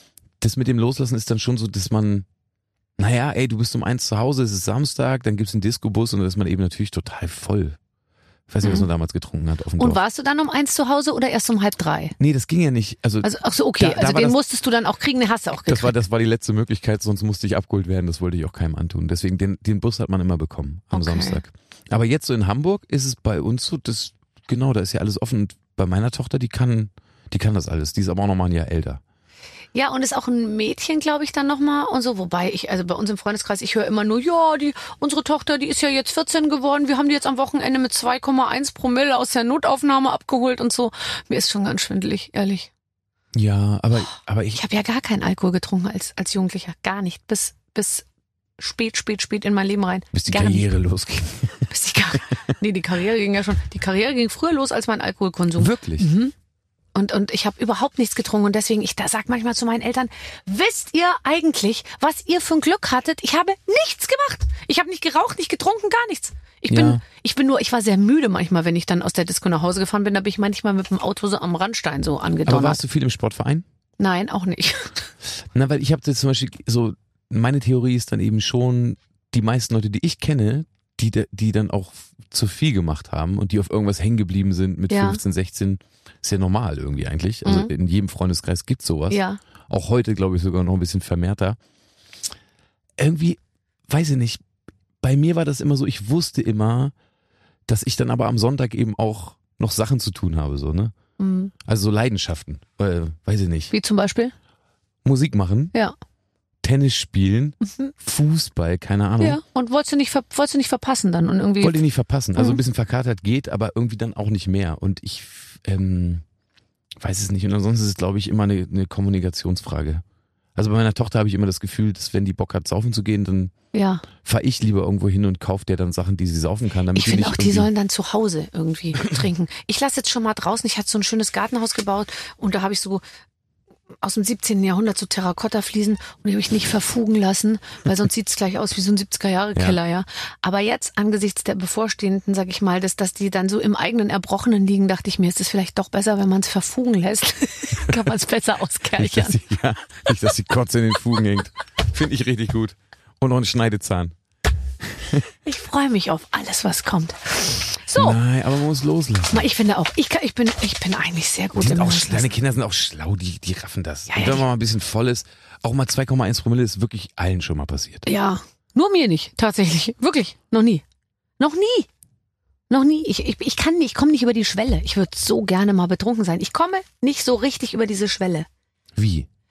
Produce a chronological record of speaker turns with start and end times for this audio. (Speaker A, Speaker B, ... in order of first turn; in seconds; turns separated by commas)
Speaker A: 0.4-2.3, Speaker A: 3.0-7.8, Speaker A: 8.5-10.0, Speaker B: 9.8-12.2, Speaker A: 12.2-14.4, Speaker B: 13.2-15.9, Speaker A: 15.7-29.0, Speaker B: 20.9-21.4, Speaker B: 29.7-42.7, Speaker A: 43.3-44.6, Speaker B: 44.5-48.0, Speaker B: 48.6-50.7, Speaker A: 50.1-51.7, Speaker B: 51.7-56.3, Speaker A: 55.6-56.1, Speaker B: 57.0-72.8, Speaker A: 66.7-67.0, Speaker A: 72.5-73.7, Speaker B: 74.0-75.1, Speaker A: 75.5-91.6, Speaker B: 84.9-85.2, Speaker B: 87.5-87.7, Speaker B: 89.1-89.4, Speaker A: 93.0-94.4, Speaker A: 95.0-96.9, Speaker A: 97.7-100.9, Speaker B: 101.2-101.5, Speaker A: 101.7-103.7, Speaker B: 103.7-104.3, Speaker A: 105.0-105.7, Speaker A: 106.6-109.4, Speaker B: 109.2-111.8, Speaker A: 111.6-116.2, Speaker A: 117.0-120.0, Speaker A: 120.6-123.5, Speaker B: 123.7-124.0, Speaker A: 124.2-127.7, Speaker B: 127.0-133.0, Speaker B: 134.0-149.4, Speaker A: 149.0-154.2, Speaker A: 154.8-155.2, Speaker B: 155.4-158.2, Speaker A: 157.9-159.5, Speaker B: 159.3-162.3, Speaker A: 161.6-168.1, Speaker B: 164.1-164.4, Speaker B: 168.1-170.8, Speaker B: 171.4-171.9, Speaker B: 172.7-178.5, Speaker A: 179.0-179.3